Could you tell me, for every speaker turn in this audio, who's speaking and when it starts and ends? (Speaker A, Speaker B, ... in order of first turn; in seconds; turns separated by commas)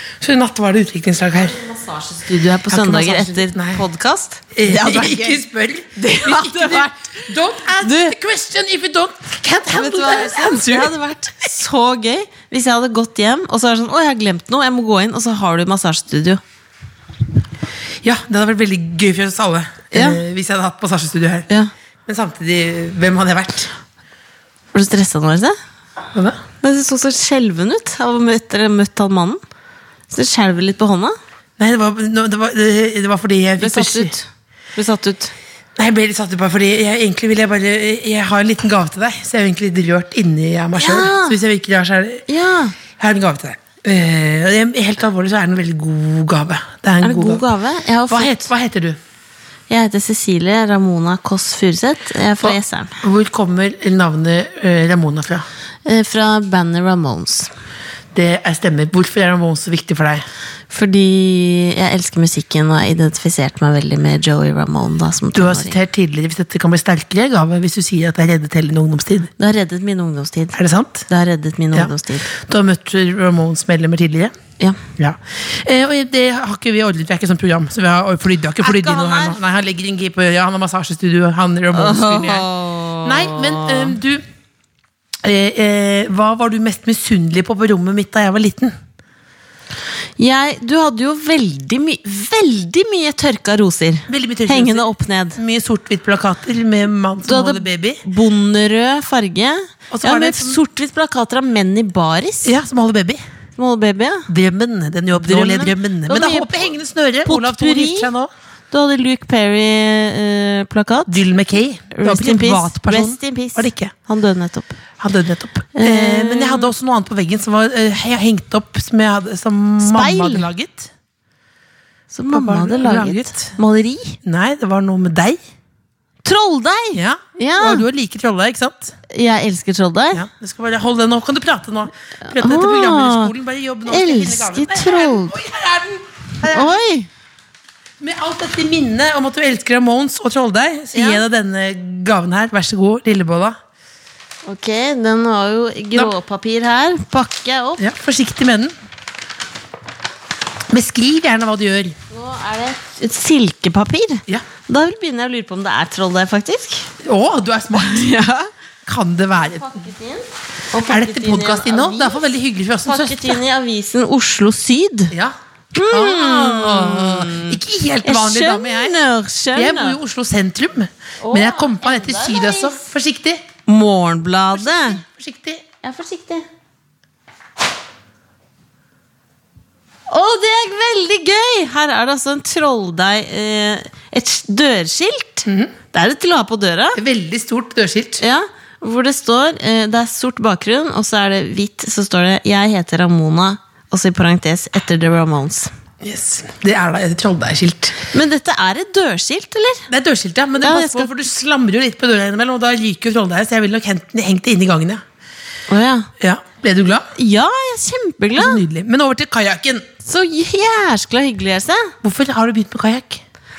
Speaker A: 0.2-1.6, Speaker B: 1.4-5.4, Speaker A: 2.7-3.8, Speaker A: 4.5-10.9, Speaker B: 6.0-6.9, Speaker B: 7.8-8.2, Speaker B: 9.7-16.4, Speaker A: 18.0-21.5, Speaker B: 19.9-20.2, Speaker A: 22.1-23.7, Speaker B: 24.7-25.6, Speaker B: 26.6-29.4, Speaker B: 30.1-31.1, Speaker A: 31.6-34.1, Speaker B: 33.6-35.3, Speaker A: 35.8-42.3, Speaker B: 40.8-41.4, Speaker B: 42.3-42.8, Speaker A: 43.0-47.5, Speaker B: 47.0-48.5, Speaker A: 48.1-49.0, Speaker B: 49.7-53.0, Speaker A: 52.4-55.5, Speaker B: 55.9-57.5, Speaker A: 58.1-60.2, Speaker B: 60.7-65.8, Speaker A: 65.3-69.3, Speaker B: 69.4-70.6, Speaker A: 70.5-71.1, Speaker B: 71.1-72.3, Speaker A: 71.7-74.3, Speaker A: 75.0-82.5, Speaker B: 78.6-79.4, Speaker B: 81.7-84.0, Speaker A: 83.0-84.2, Speaker A: 85.2-88.7, Speaker B: 90.2-95.4, Speaker A: 94.1-98.0, Speaker B: 97.2-102.5, Speaker A: 99.9-100.6, Speaker A: 102.5-103.2, Speaker B: 103.6-104.3, Speaker A: 104.3-108.3, Speaker B: 105.1-106.7, Speaker B: 107.2-108.1, Speaker B: 108.7-111.2, Speaker A: 111.1-113.9, Speaker B: 111.9-114.8, Speaker A: 115.0-120.9, Speaker B: 115.8-116.7, Speaker B: 119.8-120.5, Speaker B: 122.1-124.2, Speaker A: 122.3-123.5, Speaker A: 124.2-125.4, Speaker B: 126.2-127.8, Speaker A: 127.0-128.9, Speaker B: 129.1-130.2, Speaker A: 130.1-136.8, Speaker B: 132.3-133.3, Speaker B: 133.9-135.4, Speaker B: 136.5-137.1, Speaker A: 138.0-143.6, Speaker B: 140.9-141.2, Speaker B: 144.5-147.8, Speaker A: 147.8-148.7, Speaker A: 150.7-152.0, Speaker B: 152.1-156.9, Speaker A: 157.0-158.1, Speaker B: 157.8-158.5, Speaker A: 158.9-159.7, Speaker B: 159.4-162.3, Speaker A: 160.9-163.4, Speaker B: 162.9-165.1, Speaker A: 165.1-169.0, Speaker B: 165.7-170.0, Speaker A: 169.6-173.4, Speaker B: 171.2-172.8, Speaker B: 173.7-175.0, Speaker A: 174.6-175.6, Speaker B: 175.8-176.5, Speaker B: 180.1-187.0, Speaker A: 185.5-185.7, Speaker A: 187.0-188.2, Speaker B: 188.2-195.7, Speaker A: 196.0-198.0, Speaker B: 198.1-199.9, Speaker A: 199.9-205.0, Speaker B: 200.6-201.1, Speaker B: 205.7-206.1, Speaker A: 206.2-207.1, Speaker B: 207.2-208.6, Speaker A: 208.4-209.9, Speaker B: 210.0-211.9, Speaker A: 212.0-213.2